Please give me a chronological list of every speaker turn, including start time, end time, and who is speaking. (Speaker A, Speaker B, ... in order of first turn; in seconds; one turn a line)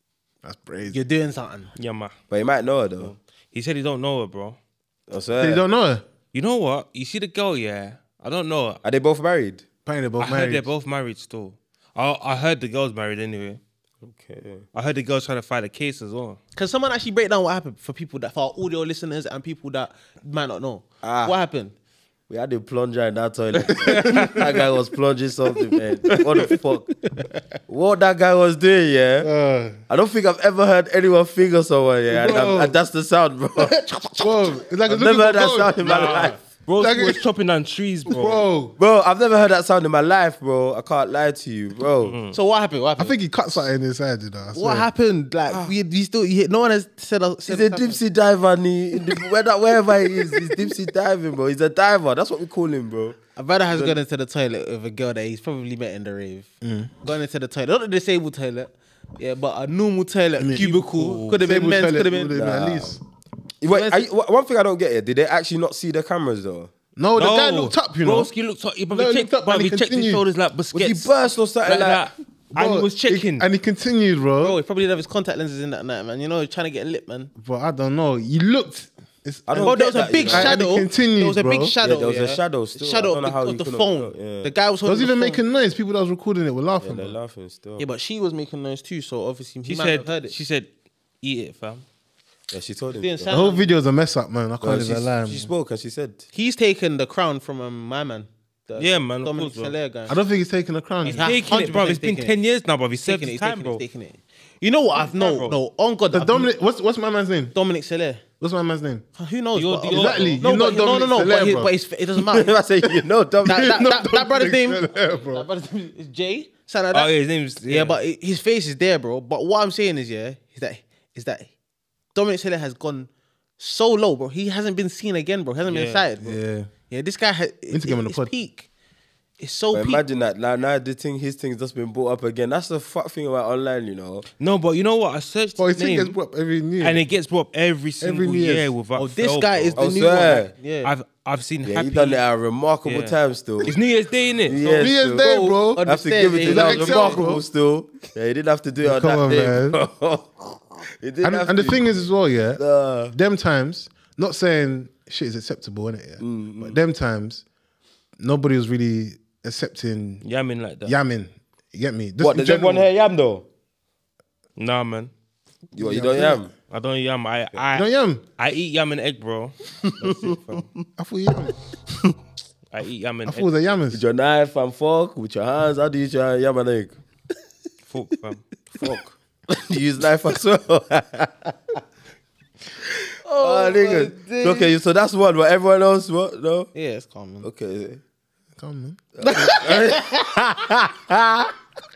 Speaker A: 0.4-1.0
Speaker B: 0.9-1.7
Speaker C: 1.7-2.2
Speaker D: 2.3-3.1
Speaker C: 3.0-4.6
Speaker D: 5.1-5.6
Speaker A: 5.4-6.0
Speaker C: 6.3-8.8
Speaker D: 8.8-9.6
Speaker A: 9.9-10.7
Speaker C: 10.2-13.6
Speaker D: 14.0-14.7
Speaker C: 14.7-16.4
Speaker B: 16.5-21.7
Speaker D: 21.0-21.4
Speaker D: 22.3-26.9
Speaker C: 23.7-24.6
Speaker A: 23.8-24.4
Speaker B: 26.2-26.6
Speaker D: 27.7-29.3
Speaker A: 29.2-29.8
Speaker D: 29.9-33.8
Speaker A: 32.1-32.7
Speaker B: 33.6-34.5
Speaker A: 34.2-37.2
Speaker D: 34.9-36.4
Speaker C: 35.8-38.5
Speaker A: 38.1-38.7
Speaker D: 38.8-42.1
Speaker C: 42.0-42.4
Speaker B: 42.3-43.2
Speaker A: 43.0-44.9
Speaker B: 44.5-48.0
Speaker D: 47.5-53.2
Speaker B: 53.4-62.4
Speaker D: 53.7-54.0
Speaker A: 56.6-56.9
Speaker A: 60.4-63.0
Speaker C: 60.8-61.4
Speaker D: 62.3-63.0
Speaker D: 63.6-66.7
Speaker B: 63.7-64.1
Speaker A: 67.0-68.3
Speaker C: 67.2-73.5
Speaker A: 68.9-70.2
Speaker D: 70.7-72.1
Speaker A: 72.5-74.6
Speaker B: 74.4-77.3
Speaker A: 77.4-81.7
Speaker D: 79.5-80.6
Speaker B: 79.6-85.4
Speaker D: 81.8-84.5
Speaker A: 84.8-87.2
Speaker D: 86.8-87.9
Speaker B: 87.8-90.3
Speaker C: 89.6-90.7
Speaker C: 91.2-91.8
Speaker D: 92.5-93.4
Speaker B: 92.9-93.7
Speaker A: 93.3-95.5
Speaker D: 94.6-96.2
Speaker B: 96.3-100.2
Speaker C: 98.8-99.7
Speaker A: 100.1-101.3
Speaker B: 101.0-102.3
Speaker C: 101.0-103.8
Speaker B: 103.0-106.5
Speaker C: 105.0-105.5
Speaker A: 106.1-107.5
Speaker B: 107.5-108.2
Speaker A: 108.4-109.0
Speaker B: 109.2-112.5
Speaker C: 109.5-110.4
Speaker A: 109.9-111.7
Speaker D: 112.2-113.8
Speaker B: 113.5-121.5
Speaker A: 113.5-115.5
Speaker C: 116.9-118.0
Speaker B: 122.1-128.7
Speaker C: 125.7-126.0
Speaker A: 126.2-126.7
Speaker A: 127.7-128.3
Speaker B: 129.4-130.0
Speaker D: 129.7-134.2
Speaker C: 134.4-136.2
Speaker A: 135.6-137.0
Speaker C: 136.8-139.9
Speaker A: 138.0-138.7
Speaker B: 138.9-140.9
Speaker D: 139.8-140.5
Speaker C: 140.8-142.2
Speaker D: 141.6-143.7
Speaker C: 142.8-144.9
Speaker D: 144.4-151.8
Speaker A: 144.8-145.9
Speaker B: 145.2-147.3
Speaker A: 146.4-147.4
Speaker A: 148.8-149.8
Speaker A: 151.2-152.6
Speaker D: 152.6-153.1
Speaker A: 153.1-157.4
Speaker D: 156.2-156.8
Speaker A: 158.2-160.2
Speaker C: 160.2-160.9
Speaker A: 160.8-162.9
Speaker D: 162.2-163.4
Speaker C: 164.6-165.1
Speaker A: 165.7-166.4
Speaker D: 165.7-166.5
Speaker C: 166.7-167.9
Speaker A: 167.7-168.2
Speaker C: 168.4-170.6
Speaker D: 169.9-170.8
Speaker A: 171.0-171.6
Speaker C: 172.7-173.5
Speaker A: 173.2-174.0
Speaker D: 173.9-176.9
Speaker C: 177.9-178.5
Speaker D: 178.8-181.7
Speaker B: 183.2-184.7
Speaker D: 183.3-186.7
Speaker B: 186.7-187.5
Speaker D: 187.4-188.0
Speaker A: 188.6-189.0
Speaker D: 189.2-191.5
Speaker B: 189.2-190.4